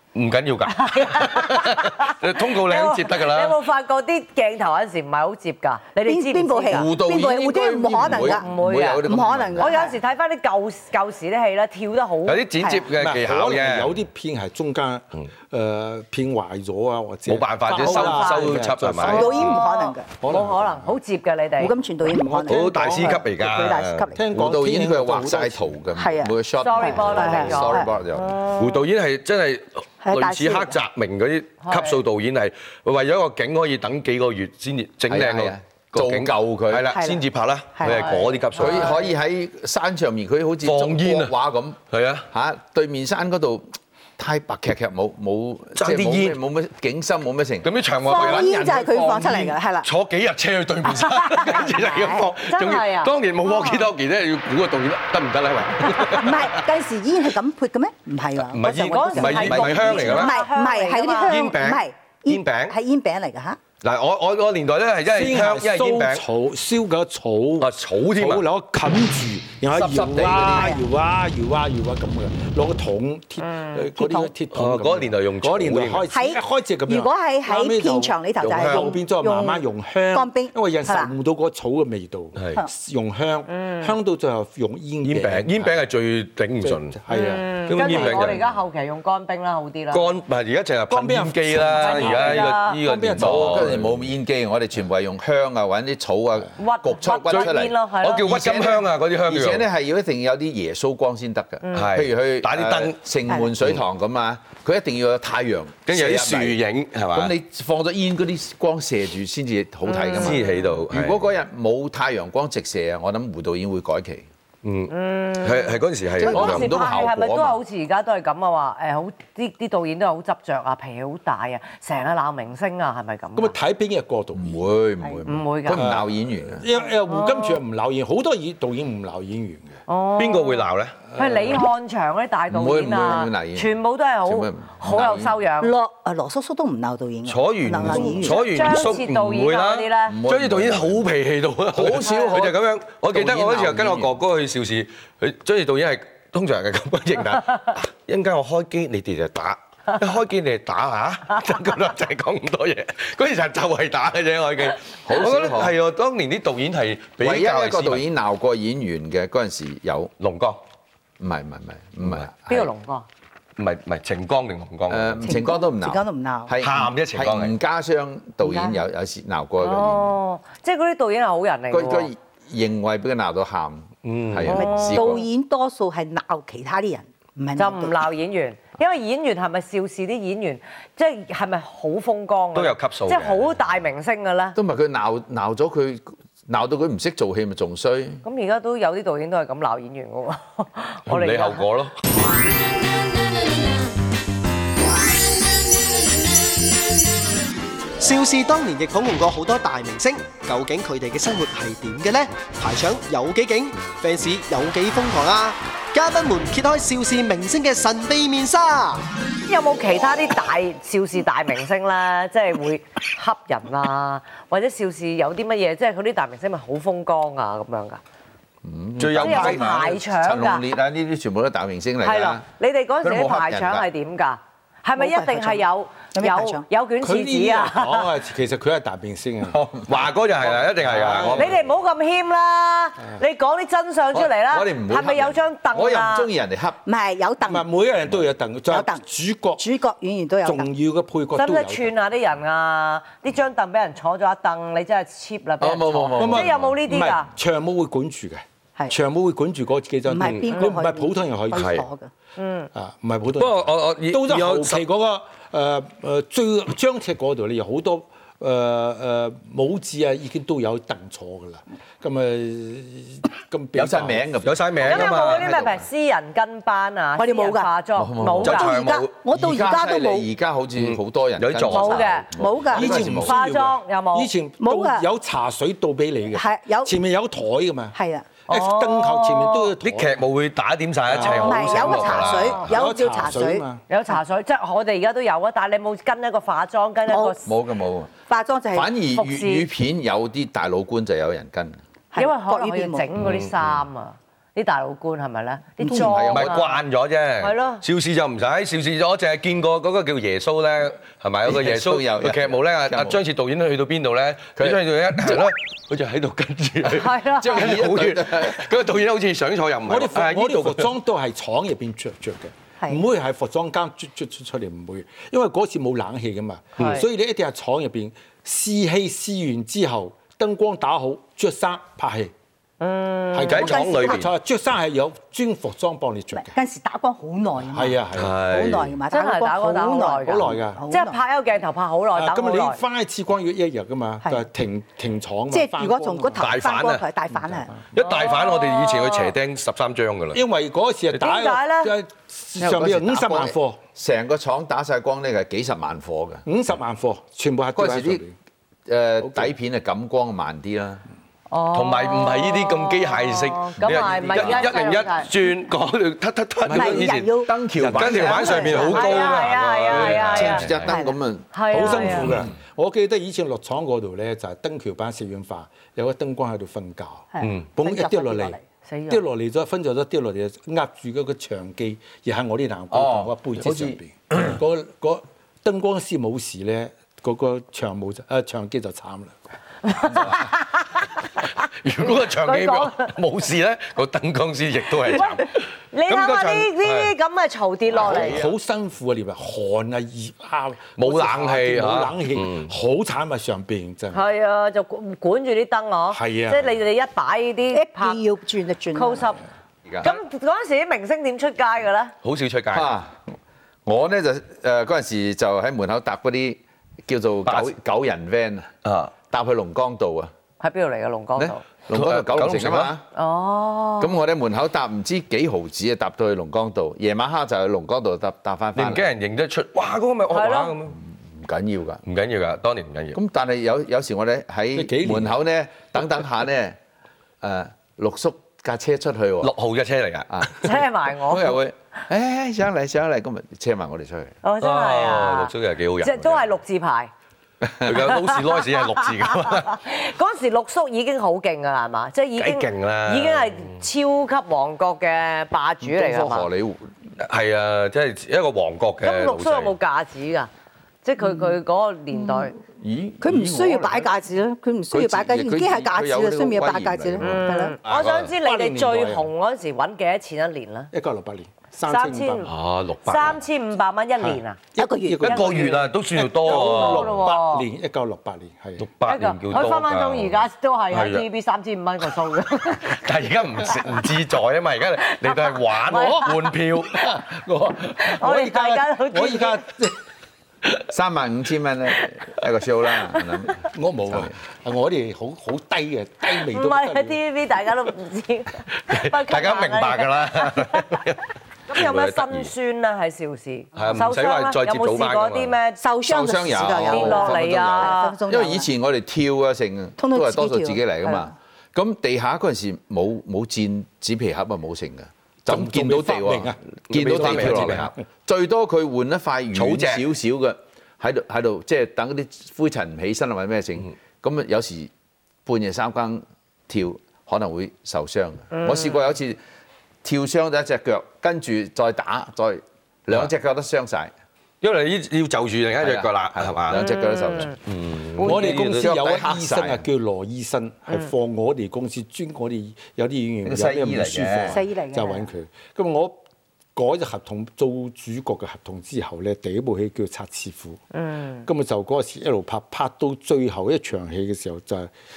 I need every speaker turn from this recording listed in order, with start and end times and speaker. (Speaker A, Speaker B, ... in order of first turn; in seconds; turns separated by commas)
Speaker A: 0.1-3.5, Speaker B: 0.7-6.9, Speaker C: 6.0-8.5, Speaker D: 6.7-9.9, Speaker B: 8.1-9.0, Speaker C: 9.0-10.0, Speaker B: 9.6-12.4, Speaker A: 12.2-14.0, Speaker C: 12.6-12.9, Speaker E: 13.0-19.5, Speaker A: 17.2-19.6, Speaker B: 17.8-21.7, Speaker C: 19.0-20.1, Speaker E: 20.2-20.9, Speaker C: 21.6-24.2, Speaker E: 22.2-23.2, Speaker A: 22.4-24.1, Speaker E: 24.1-25.7, Speaker D: 24.3-28.4, Speaker C: 25.9-27.8, Speaker B: 26.6-28.8, Speaker A: 28.5-39.0, Speaker C: 30.0-30.8, Speaker B: 31.6-32.0, Speaker D: 35.1-36.9, Speaker C: 36.9-37.2, Speaker C: 37.7-38.2, Speaker B: 37.8-39.0, Speaker D: 38.5-41.8, Speaker A: 40.6-41.3, Speaker A: 41.9-42.2, Speaker D: 42.3-47.7, Speaker A: 45.8-46.4, Speaker A: 47.6-56.6, Speaker C: 48.0-49.9, Speaker D: 48.2-48.5, Speaker C: 51.4-52.3, Speaker B: 52.5-53.8, Speaker C: 56.1-63.6, Speaker A: 58.5-60.4, Speaker B: 58.6-61.5, Speaker D: 59.3-60.1, Speaker A: 61.3-62.8, Speaker A: 63.8-66.2, Speaker E: 65.0-85.8, Speaker A: 67.6-68.5, Speaker D: 69.8-70.7, Speaker A: 70.0-70.6, Speaker C: 70.5-70.8, Speaker B: 73.4-73.8, Speaker C: 74.0-74.3, Speaker A: 74.5-76.1, Speaker C: 76.1-81.1, Speaker A: 78.4-78.9, Speaker B: 83.5-83.9, Speaker A: 85.0-87.0, Speaker E: 86.6-88.3, Speaker B: 87.1-90.1, Speaker A: 87.7-88.4, Speaker A: 89.9-93.9, Speaker E: 90.9-93.8, Speaker B: 91.8-92.8, Speaker D: 93.2-106.6, Speaker B: 96.6-98.2, Speaker A: 97.3-99.7, Speaker B: 101.6-101.9, Speaker A: 101.7-103.0, Speaker A: 105.8-107.3, Speaker D: 107.1-114.3, Speaker B: 109.9-110.8, Speaker A: 110.1-111.2, Speaker A: 114.6-116.7, Speaker B: 114.9-123.6, Speaker D: 116.2-117.6, Speaker E: 123.3-124.6, Speaker D: 124.4-126.6, Speaker B: 125.2-126.0, Speaker E: 125.7-129.8, Speaker B: 126.7-127.6, Speaker B: 129.9-135.7, Speaker A: 130.2-131.0, Speaker E: 131.1-131.6, Speaker D: 132.5-135.3, Speaker C: 135.6-138.9, Speaker A: 137.2-158.0, Speaker B: 138.2-140.2, Speaker D: 140.1-141.1, Speaker D: 141.7-142.6, Speaker B: 142.0-142.3, Speaker D: 143.1-144.1, Speaker D: 155.0-155.8, Speaker D: 157.2-160.1, Speaker A: 160.2-160.6, Speaker D: 161.2-162.7, Speaker A: 162.0-162.3, Speaker B: 162.5-163.1, Speaker A: 163.6-165.3, Speaker D: 164.9-170.2, Speaker C: 165.2-166.5, Speaker A: 166.6-167.5, Speaker C: 168.4-168.8, Speaker B: 169.6-172.1, Speaker D: 171.7-175.2, Speaker A: 174.0-174.6, Speaker B: 174.5-175.2, Speaker C: 174.5-178.0, Speaker B: 177.6-184.6, Speaker A: 182.5-183.5, Speaker D: 184.5-188.2, Speaker B: 188.2-191.6, Speaker A: 191.1-191.9, Speaker F: 198.0-209.1, Speaker B: 209.4-218.0, Speaker D: 218.6-222.4, Speaker A: 219.0-219.8, Speaker B: 219.2-220.6, Speaker B: 222.0-228.1, Speaker D: 223.0-223.9, Speaker C: 225.0-226.6, Speaker E: 227.0-229.6, Speaker D: 229.4-230.1, Speaker A: 229.9-231.4, Speaker E: 230.6-231.5, Speaker D: 230.9-231.6, Speaker B: 231.3-236.3, Speaker D: 234.1-236.8, Speaker C: 236.8-237.8, Speaker E: 237.4-239.6, Speaker C: 238.7-239.0, Speaker C: 239.6-240.7, Speaker E: 240.4-241.9, Speaker B: 241.3-247.3, Speaker D: 245.6-246.7, Speaker E: 246.2-251.8, Speaker C: 250.0-252.1, Speaker A: 250.2-250.5, Speaker A: 251.5-251.8, Speaker B: 252.4-252.7, Speaker E: 252.7-264.3, Speaker A: 253.4-254.8, Speaker D: 263.7-265.6, Speaker A: 264.4-265.7, Speaker B: 264.9-268.7, Speaker C: 267.2-267.7, Speaker D: 268.0-273.3, Speaker A: 268.4-269.1, Speaker C: 268.4-270.3, Speaker A: 270.8-272.1, Speaker B: 271.7-272.3, Speaker C: 272.3-273.2, Speaker E: 272.7-277.9, Speaker B: 273.1-274.3, Speaker C: 274.6-275.1, Speaker C: 276.3-277.0, Speaker C: 277.9-278.3, Speaker E: 278.5-280.2, Speaker B: 278.5-279.7, Speaker A: 279.8-282.6, Speaker E: 281.1-282.1, Speaker C: 281.2-283.6, Speaker B: 282.1-282.4, Speaker E: 282.6-283.8, Speaker B: 283.9-287.5, Speaker C: 287.1-287.4, Speaker D: 287.4-288.1, Speaker C: 288.3-289.0, Speaker D: 288.7-291.8, Speaker B: 289.2-289.6, Speaker C: 292.1-293.1, Speaker B: 292.1-296.8, Speaker A: 293.2-293.5, Speaker C: 295.8-296.2, Speaker D: 295.8-296.8, Speaker A: 296.3-310.9, Speaker B: 297.4-297.8, Speaker D: 301.4-303.2, Speaker D: 304.6-305.5, Speaker B: 306.9-307.7, Speaker D: 307.4-308.7, Speaker E: 309.9-322.3, Speaker A: 316.8-317.0, Speaker B: 316.8-317.0, Speaker B: 322.8-323.7, Speaker E: 323.3-326.5, Speaker A: 323.5-324.3, Speaker C: 323.5-324.3, Speaker C: 326.3-331.2, Speaker E: 327.6-328.4, Speaker A: 328.1-328.9, Speaker B: 329.1-332.8, Speaker E: 330.2-330.8, Speaker E: 332.1-336.4, Speaker C: 335.5-337.7, Speaker A: 336.4-337.0, Speaker E: 337.3-337.8, Speaker A: 337.9-340.4, Speaker B: 338.0-339.3, Speaker E: 340.3-343.8, Speaker B: 341.2-341.9, Speaker D: 342.6-346.4, Speaker E: 346.4-348.3, Speaker D: 347.7-348.2, Speaker D: 348.9-351.0, Speaker E: 349.2-349.5, Speaker B: 351.5-355.3, Speaker A: 351.7-360.9, Speaker D: 353.8-354.7, Speaker E: 356.7-357.1, Speaker C: 356.7-357.6, Speaker D: 357.4-358.7, Speaker E: 357.8-359.0, Speaker C: 358.1-359.3, Speaker B: 358.6-360.6, Speaker D: 360.2-362.4, Speaker C: 360.9-361.2, Speaker B: 361.5-362.3, Speaker E: 361.7-379.4, Speaker C: 367.3-368.6, Speaker B: 368.9-369.2, Speaker D: 372.9-374.5, Speaker B: 379.9-380.8, Speaker E: 380.0-380.3, Speaker A: 381.8-387.1, Speaker B: 382.1-383.1, Speaker B: 385.1-385.4, Speaker B: 385.9-388.4, Speaker A: 387.9-388.5, Speaker E: 388.0-394.2, Speaker A: 391.0-392.7, Speaker B: 394.1-398.2, Speaker E: 396.1-396.7, Speaker C: 397.7-399.3, Speaker B: 398.9-399.4, Speaker D: 399.9-400.1, Speaker B: 400.0-402.1, Speaker A: 402.2-402.9, Speaker D: 402.7-403.3, Speaker D: 403.8-408.7, Speaker A: 407.4-407.7, Speaker A: 408.8-409.1, Speaker D: 409.3-410.3, Speaker B: 410.6-411.6, Speaker D: 411.4-413.0, Speaker A: 411.9-412.9, Speaker B: 413.1-414.1, Speaker D: 414.0-419.1, Speaker A: 418.8-421.0, Speaker B: 420.3-420.7, Speaker D: 421.0-422.0, Speaker A: 422.1-423.2, Speaker D: 423.1-426.8, Speaker E: 424.7-425.4, Speaker D: 427.4-429.5, Speaker A: 429.4-430.7, Speaker D: 430.3-434.4, Speaker B: 430.6-431.6, Speaker B: 434.4-437.1, Speaker A: 434.6-436.6, Speaker D: 437.6-438.0, Speaker A: 437.8-439.8, Speaker B: 439.4-446.5, Speaker A: 442.4-443.7, Speaker D: 445.8-446.9, Speaker A: 447.2-449.8, Speaker B: 449.0-450.5, Speaker B: 451.0-452.5, Speaker D: 452.7-454.1, Speaker C: 453.2-457.8, Speaker D: 454.9-458.1, Speaker B: 457.2-460.9, Speaker A: 457.9-458.2, Speaker E: 458.4-459.3, Speaker E: 460.9-462.5, Speaker B: 461.9-462.5, Speaker A: 462.5-463.4, Speaker B: 463.0-464.6, Speaker E: 464.2-468.9, Speaker C: 464.8-465.4, Speaker A: 465.2-467.2, Speaker B: 465.2-467.7, Speaker A: 468.8-471.2, Speaker B: 469.0-473.0, Speaker A: 472.9-477.1, Speaker B: 475.2-476.3, Speaker E: 475.9-476.3, Speaker E: 476.9-480.0, Speaker B: 478.0-479.6, Speaker D: 480.9-484.3, Speaker E: 483.6-487.2, Speaker B: 486.3-491.0, Speaker A: 488.9-492.5, Speaker B: 491.7-495.8, Speaker A: 493.8-495.6, Speaker C: 495.8-498.7, Speaker D: 496.0-514.9, Speaker B: 496.9-498.1, Speaker C: 500.0-501.3, Speaker E: 505.5-507.9, Speaker A: 506.9-507.9, Speaker A: 509.5-510.0, Speaker D: 515.5-519.4, Speaker B: 518.5-519.1, Speaker D: 520.0-524.1, Speaker A: 524.6-526.8, Speaker D: 525.8-527.5, Speaker B: 526.7-527.5, Speaker A: 527.6-529.0, Speaker E: 528.2-536.2, Speaker D: 528.4-529.9, Speaker D: 533.4-534.6, Speaker C: 534.5-535.3, Speaker E: 536.7-540.8, Speaker B: 540.9-541.5, Speaker E: 541.5-544.9